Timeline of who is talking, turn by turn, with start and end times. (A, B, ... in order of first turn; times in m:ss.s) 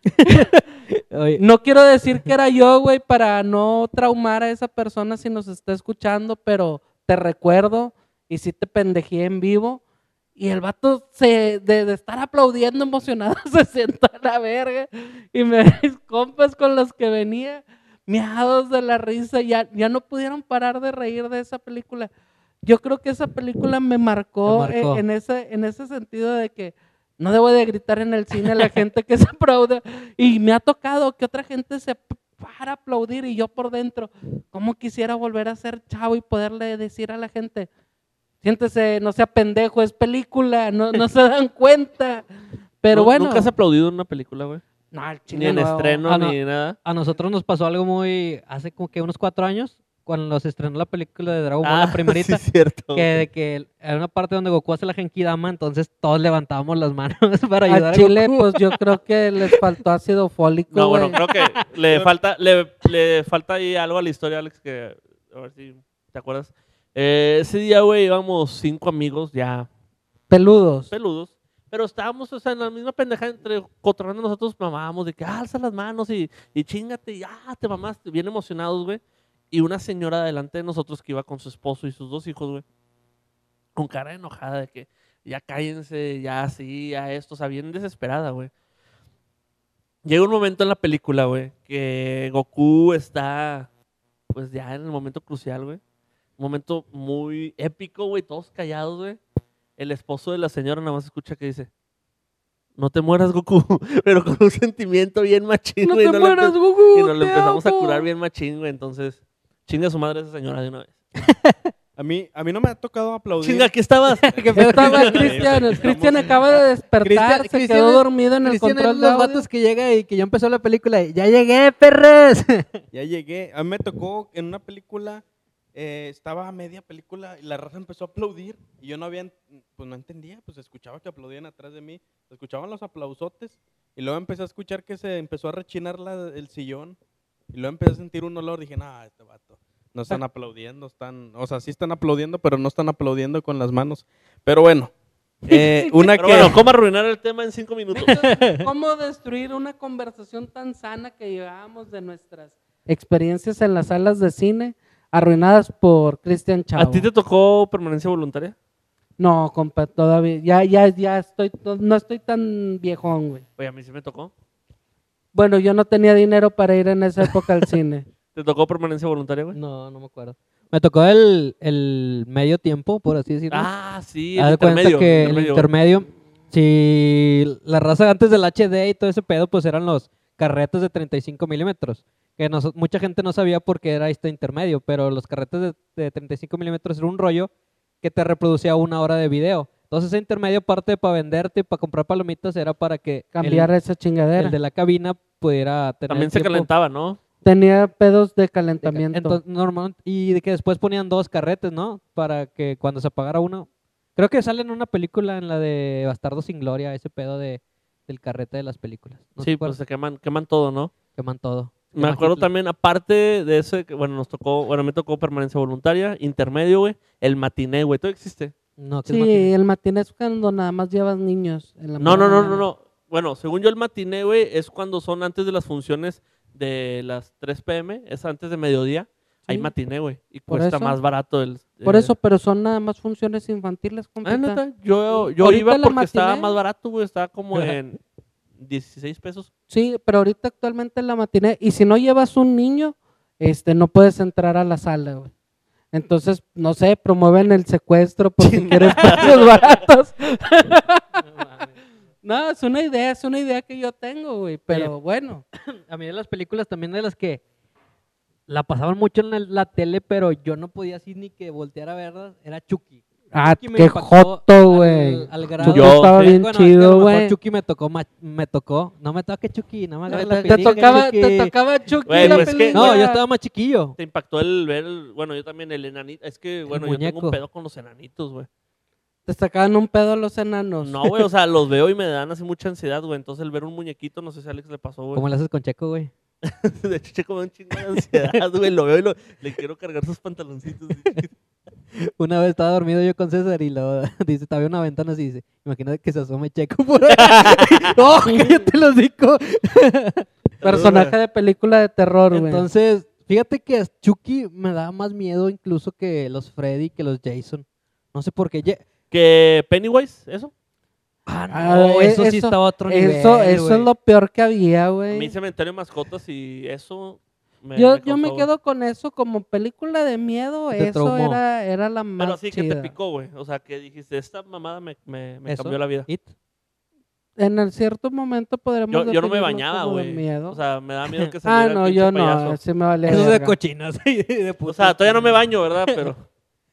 0:00.2-0:01.4 A
0:01.4-0:09.8 B
0:10.4-0:22.1 B
0:22.6-0:37.7 B
0:24.4-0:25.0 A
0:38.4-0:42.2 B
0:42.8-0:43.5 B
0:42.9-0:44.6 C
0:44.9-0:46.3 B
0:45.3-0:46.8 C
0:46.8-0:52.4 A
0:51.6-0:53.1 C
0:52.9-0:58.8 A
0:57.7-1:01.2 B
1:00.7-1:09.7 C
1:01.2-1:01.5 A
1:10.3-1:10.9 B
1:10.9-1:22.6 C
1:23.8-1:28.5 C
1:30.0-1:33.7 C
1:34.3-1:35.8 C
1:36.4-1:39.2 C
1:39.8-1:41.7 C
1:42.8-1:51.0 C
1:45.8-1:48.0 B
1:51.2-1:51.7 A
1:52.0-1:56.3 D
1:53.4-1:55.6 C
1:54.2-1:55.7 A
1:54.5-1:59.4 B
1:57.0-2:02.8 A
2:02.9-2:17.0 D
2:17.5-2:24.9 D
2:25.4-2:26.6 D
2:25.5-2:26.1 B
2:26.2-2:28.2 C
2:27.9-2:37.1 B
2:28.1-2:28.7 A
2:36.8-2:38.5 C
2:39.2-2:43.4 B
2:43.6-2:44.3 C
2:45.3-2:48.0 B
2:48.3-2:49.6 C
2:49.5-2:53.7 A
2:53.5-2:55.7 C
2:54.4-3:07.5 A
3:08.0-3:13.7 A
3:13.3-3:14.6 B
3:14.4-3:16.7 A
3:16.1-3:17.2 C
3:17.4-3:19.4 B
3:18.8-3:29.8 A
3:29.4-3:30.9 C
3:31.1-3:32.5 A
3:31.9-3:38.5 C
3:38.8-3:39.5 A
3:39.0-3:42.6 B
3:42.0-3:52.1 C
3:50.5-3:51.0 B
3:51.8-3:54.6 B
3:54.2-3:58.0 C
3:55.1-3:56.6 B
3:58.6-3:59.5 C
3:59.7-4:05.3 B
4:05.9-4:11.0 B
4:08.4-4:09.8 C
4:11.2-4:11.7 A
4:12.2-4:15.4 B
4:15.6-4:17.4 A
4:18.5-4:31.5 A
4:23.3-4:27.3 B
4:25.6-4:26.4 C
4:30.1-4:31.0 C
4:30.1-4:33.2 B
4:32.0-4:33.0 C
4:32.1-4:34.0 A
4:34.0-4:38.5 C
4:36.7-4:37.4 A
4:39.2-4:41.2 B
4:40.8-4:45.2 C
4:45.1-4:46.1 A
4:46.4-4:51.3 C
4:52.0-5:00.3 A
4:57.2-4:57.9 C
5:00.6-5:01.1 C
5:00.6-5:02.6 B
5:02.3-5:08.8 A
5:09.1-5:10.5 C
5:11.2-5:13.9 A
5:11.5-5:15.3 B
5:15.1-5:18.5 C
5:17.7-5:22.9 B
5:20.7-5:21.4 A
5:22.2-5:26.1 C
5:25.4-5:26.3 A
5:27.4-5:30.6 B
5:28.9-5:32.6 C
5:31.4-5:33.5 B
5:33.0-5:36.1 A
5:34.7-5:36.2 C